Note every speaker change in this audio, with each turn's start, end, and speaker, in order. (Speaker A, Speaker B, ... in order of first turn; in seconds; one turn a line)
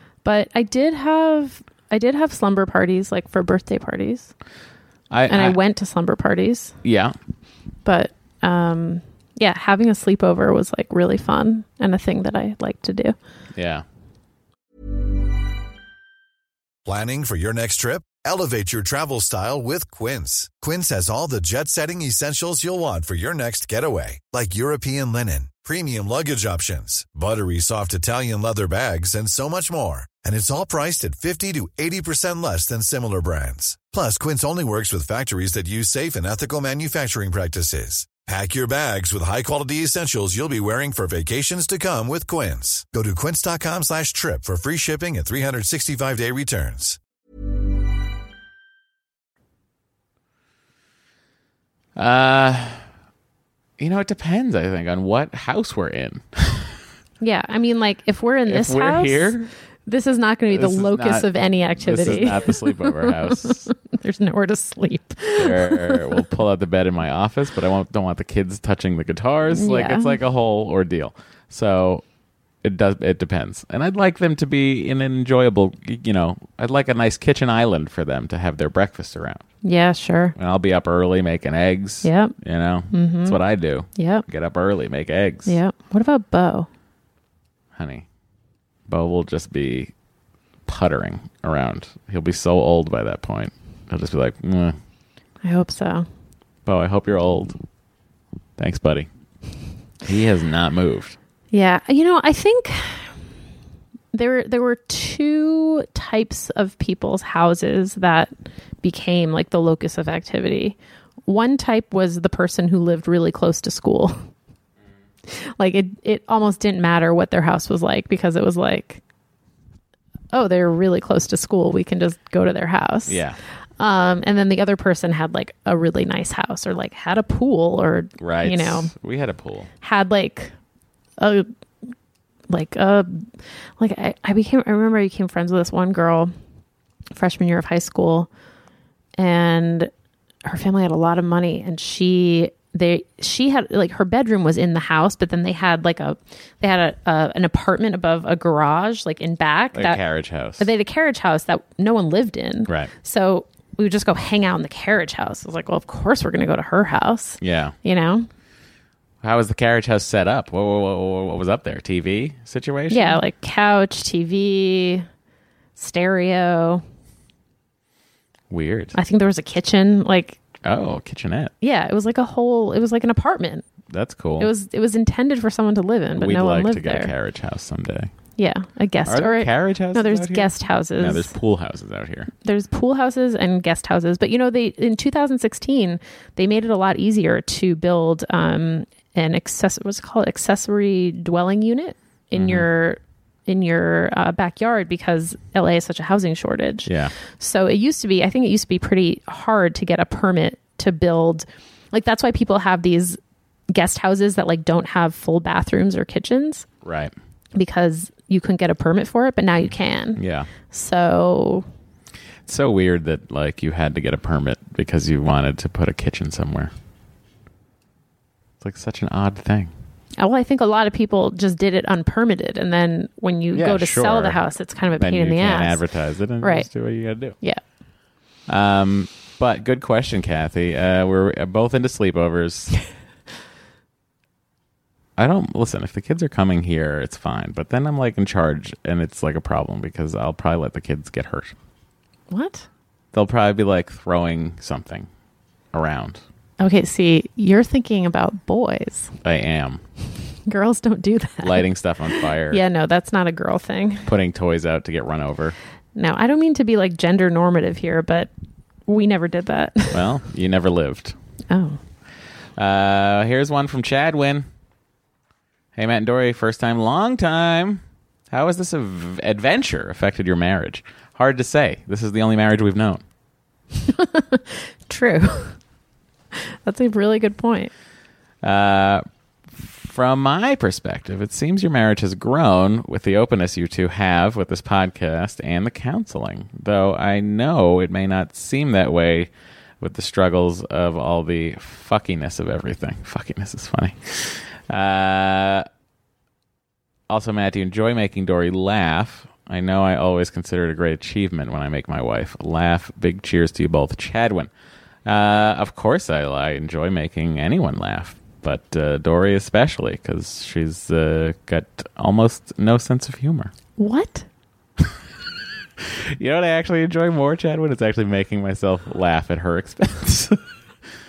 Speaker A: 0.2-4.3
Speaker B: 5.1-5.6
Speaker A: 5.3-6.7
Speaker B: 6.8-7.2
Speaker A: 7.8-13.2
Speaker B: 13.5-13.8
Speaker C: 16.8-47.0
Speaker B: 52.0-52.8
Speaker B: 53.8-56.8
Speaker A: 57.2-66.2
Speaker B: 58.5-59.5
Speaker B: 60.5-61.3
Speaker B: 61.8-63.7
Speaker B: 65.4-72.0
Speaker A: 69.5-70.2
Speaker B: 72.6-79.4
Speaker A: 79.6-80.3
Speaker B: 80.3-85.5
Speaker A: 82.0-82.3
Speaker A: 82.9-83.4
Speaker A: 84.0-84.2
Speaker A: 85.5-86.7
Speaker B: 87.7-88.0
Speaker B: 88.9-89.9
Speaker B: 90.7-94.7
Speaker A: 95.4-96.1
Speaker B: 96.7-97.6
Speaker B: 98.6-99.1
Speaker B: 100.0-101.2
Speaker A: 101.5-103.1
Speaker A: 104.1-108.3
Speaker A: 108.8-114.2
Speaker A: 115.3-119.0
Speaker A: 120.3-123.2
Speaker B: 123.0-123.4
Speaker A: 123.8-128.9
Speaker B: 128.2-129.7
Speaker A: 129.8-130.5
Speaker A: 131.2-131.5
Speaker A: 132.5-136.3
Speaker A: 137.1-138.3
Speaker A: 139.2-139.9
Speaker A: 140.4-150.0
Speaker B: 149.7-150.7
Speaker A: 150.6-158.3
Speaker B: 157.4-157.8
Speaker B: 159.2-163.2
Speaker A: 162.9-165.0
Speaker A: 165.8-166.8
Speaker B: 168.5-168.9
Speaker A: 168.9-170.4
Speaker B: 170.6-171.5
Speaker A: 171.6-173.6
Speaker B: 173.9-174.5
Speaker A: 174.4-177.1
Speaker B: 176.2-178.1
Speaker A: 178.4-181.3
Speaker B: 179.0-182.3
Speaker A: 182.4-203.2
Speaker B: 192.3-192.7
Speaker B: 196.8-197.1
Speaker A: 203.7-206.7
Speaker B: 206.8-207.1
Speaker A: 207.5-211.7
Speaker B: 210.2-210.5
Speaker B: 212.4-216.7
Speaker B: 218.6-219.7
Speaker A: 220.2-225.8
Speaker B: 223.5-224.4
Speaker B: 224.9-227.3
Speaker A: 226.4-226.7
Speaker B: 228.5-232.7
Speaker B: 235.2-241.5
Speaker A: 242.3-242.7
Speaker B: 243.1-245.1
Speaker B: 245.7-246.2
Speaker A: 246.6-249.1
Speaker B: 249.2-249.8
Speaker A: 250.5-254.1
Speaker B: 251.4-252.6
Speaker B: 254.0-255.6
Speaker A: 255.9-258.3
Speaker A: 258.9-260.1
Speaker B: 259.9-261.1
Speaker A: 261.5-261.8
Speaker B: 262.6-264.4
Speaker B: 265.7-273.0
Speaker A: 273.8-275.6
Speaker A: 276.3-277.7
Speaker B: 278.4-295.6
Speaker B: 297.1-304.5
Speaker B: 305.0-313.5
Speaker A: 313.8-314.2
Speaker B: 315.8-320.4